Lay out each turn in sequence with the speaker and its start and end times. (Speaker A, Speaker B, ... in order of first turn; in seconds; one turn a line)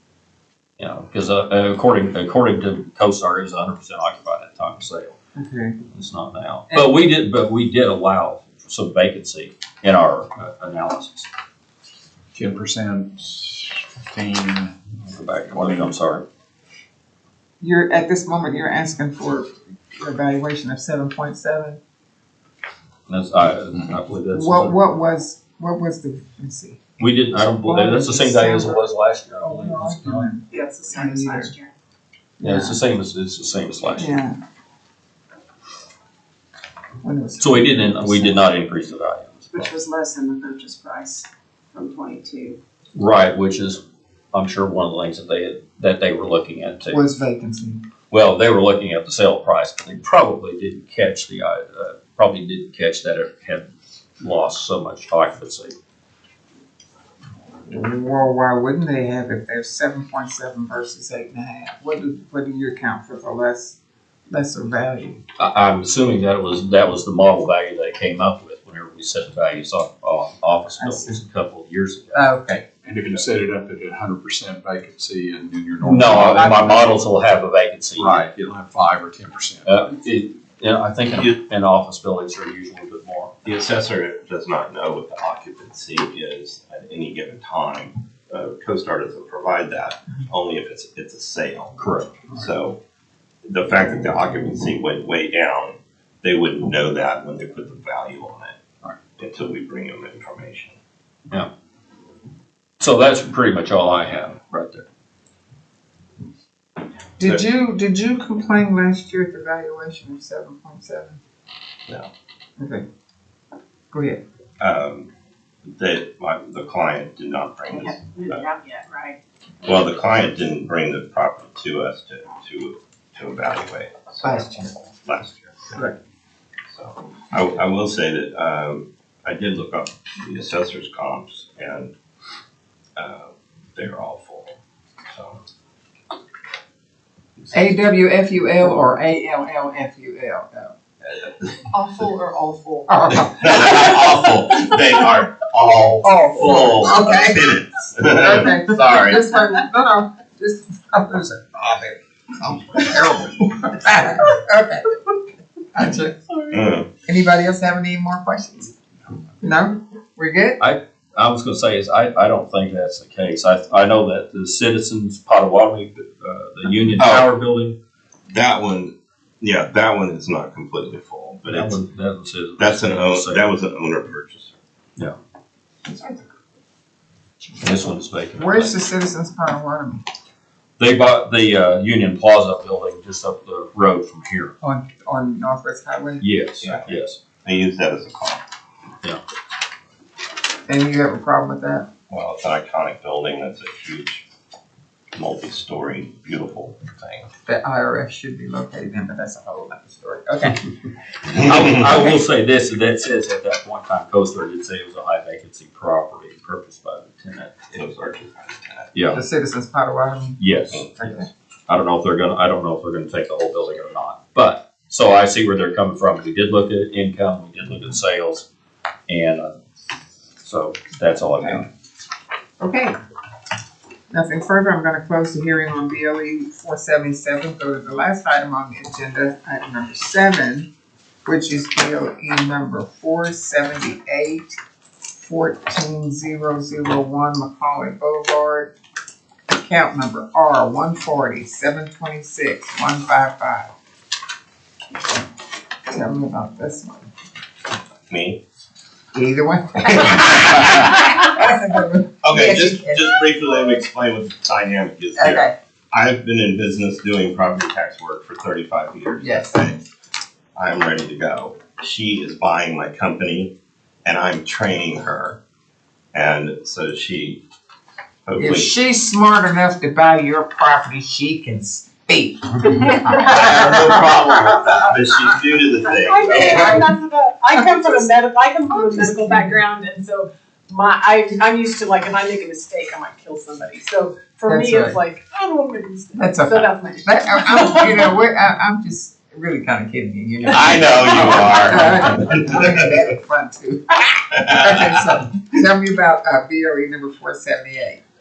Speaker A: 0.8-5.2
Speaker B: 5.4-5.8
Speaker A: 5.9-11.3
Speaker C: 12.3-14.7
Speaker A: 15.0-16.2
Speaker C: 15.5-15.9
Speaker B: 17.6-21.8
Speaker A: 23.1-24.7
Speaker B: 24.3-27.0
Speaker A: 27.0-30.2
Speaker B: 27.6-28.9
Speaker B: 29.4-31.5
Speaker D: 30.5-31.7
Speaker B: 32.4-32.8
Speaker A: 32.4-34.1
Speaker B: 34.0-34.4
Speaker B: 37.0-38.4
Speaker A: 37.4-39.5
Speaker D: 39.5-42.5
Speaker A: 42.9-43.8
Speaker A: 44.3-47.0
Speaker B: 46.9-47.8
Speaker A: 48.1-55.7
Speaker B: 57.7-63.8
Speaker B: 64.3-65.2
Speaker A: 65.4-72.2
Speaker B: 70.8-71.2
Speaker B: 72.1-72.7
Speaker C: 72.8-77.0
Speaker A: 75.8-78.3
Speaker C: 78.0-79.9
Speaker A: 79.6-83.4
Speaker E: 83.5-92.8
Speaker A: 91.8-92.1
Speaker E: 93.4-98.6
Speaker E: 99.2-100.8
Speaker A: 102.8-104.8
Speaker B: 107.2-111.2
Speaker B: 112.6-112.8
Speaker B: 113.9-114.2
Speaker E: 114.6-115.1
Speaker E: 115.7-118.5
Speaker F: 117.8-119.2
Speaker E: 119.6-125.8
Speaker B: 124.2-124.8
Speaker B: 125.7-126.0
Speaker E: 126.7-131.9
Speaker E: 132.9-134.6
Speaker E: 135.1-135.4
Speaker B: 137.5-140.7
Speaker B: 141.7-144.2
Speaker E: 143.3-149.2
Speaker B: 146.0-147.4
Speaker B: 148.1-154.8
Speaker B: 155.7-156.3
Speaker E: 156.5-156.9
Speaker B: 157.1-158.7
Speaker B: 159.4-160.6
Speaker A: 160.6-167.8
Speaker E: 167.0-167.3
Speaker E: 168.3-171.8
Speaker A: 171.5-173.5
Speaker E: 172.6-174.5
Speaker E: 175.9-176.2
Speaker A: 177.6-178.8
Speaker B: 178.3-180.0
Speaker A: 180.8-184.5
Speaker B: 184.6-186.9
Speaker A: 186.2-187.2
Speaker E: 186.6-186.9
Speaker E: 187.4-188.4
Speaker B: 190.7-191.9
Speaker E: 192.1-194.2
Speaker E: 195.1-197.3
Speaker B: 197.4-200.6
Speaker A: 201.3-207.7
Speaker E: 207.7-208.9
Speaker A: 208.9-209.2
Speaker B: 209.1-210.4
Speaker A: 210.4-210.9
Speaker E: 210.7-211.2
Speaker B: 210.9-211.3
Speaker A: 211.7-218.4
Speaker A: 219.1-219.6
Speaker A: 220.4-221.7
Speaker B: 221.4-221.6
Speaker B: 222.6-222.9
Speaker B: 224.1-230.7
Speaker B: 231.2-234.5
Speaker B: 235.1-238.7
Speaker B: 239.5-243.7
Speaker B: 245.9-247.1
Speaker E: 248.1-248.4
Speaker B: 249.1-253.1
Speaker E: 252.2-259.8
Speaker B: 255.2-255.5
Speaker B: 259.2-259.6
Speaker E: 260.6-263.5
Speaker E: 264.0-265.4
Speaker E: 266.1-267.4
Speaker E: 268.2-268.7
Speaker B: 268.4-274.3
Speaker F: 272.8-273.7
Speaker E: 273.1-276.8
Speaker F: 276.1-288.2
Speaker B: 276.2-276.9
Speaker B: 277.7-278.0
Speaker B: 278.8-279.5
Speaker B: 284.5-285.0
Speaker B: 286.1-298.0
Speaker E: 290.4-292.8
Speaker E: 294.4-295.0